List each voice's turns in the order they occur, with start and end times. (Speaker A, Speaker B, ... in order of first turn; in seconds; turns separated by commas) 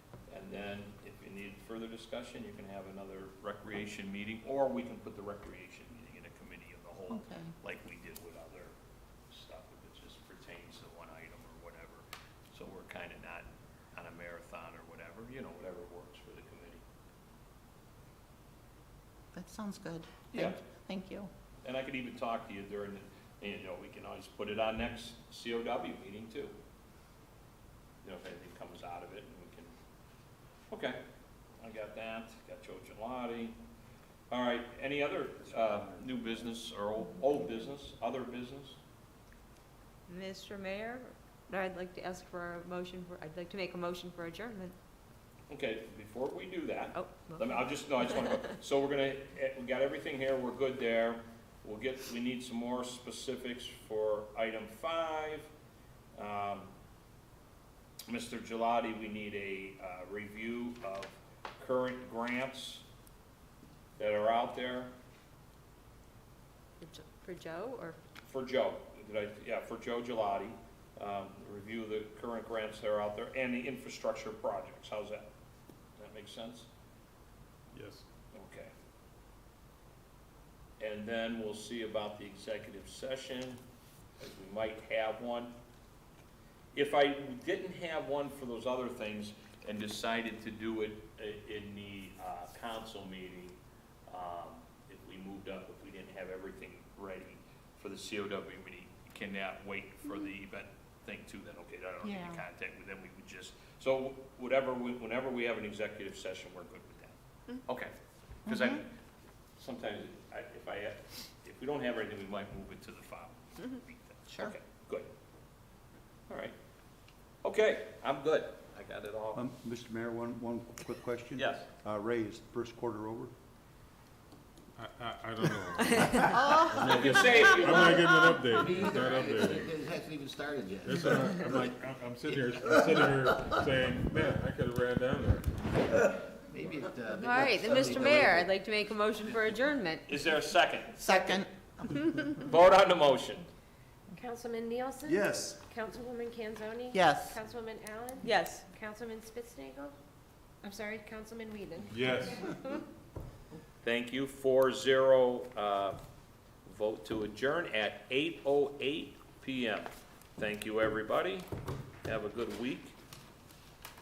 Speaker A: 0.3-8.7, Speaker B: 7.1-7.5, Speaker A: 9.3-16.8, Speaker B: 19.4-21.3, Speaker A: 20.3-20.6, Speaker A: 21.6-26.6, Speaker A: 28.0-29.7, Speaker A: 30.7-31.0, Speaker A: 31.6-33.6, Speaker A: 34.3-38.8, Speaker C: 35.7-36.1, Speaker D: 40.1-44.8, Speaker A: 45.5-55.5, Speaker D: 46.9-48.4, Speaker A: 56.1-56.7, Speaker A: 58.1-62.8, Speaker A: 64.0-64.9, Speaker D: 66.8-68.0, Speaker A: 68.2-75.3, Speaker A: 76.0-76.7, Speaker E: 77.7-78.0, Speaker A: 78.3-78.7, Speaker A: 80.8-83.6, Speaker A: 84.2-85.5, Speaker A: 86.7-93.6, Speaker A: 94.1-107.9, Speaker A: 108.5-108.9, Speaker B: 108.5-108.8, Speaker A: 109.6-115.1, Speaker B: 114.3-114.5, Speaker A: 116.3-116.5, Speaker A: 117.4-119.4, Speaker F: 119.3-123.3, Speaker A: 121.4-121.7, Speaker E: 124.8-129.8, Speaker D: 125.8-128.0, Speaker A: 126.8-128.1, Speaker C: 128.5-131.7, Speaker E: 130.8-135.7, Speaker C: 132.4-133.5, Speaker C: 136.1-138.5, Speaker D: 137.1-140.1, Speaker A: 140.1-141.4, Speaker B: 141.0-142.4, Speaker A: 142.3-143.5, Speaker G: 144.2-149.9, Speaker F: 145.1-145.6, Speaker B: 146.9-147.4, Speaker D: 148.2-148.7, Speaker G: 150.6-152.8, Speaker E: 151.9-152.5, Speaker A: 153.8-156.0, Speaker A: 156.7-161.5, Speaker A: 162.0-162.9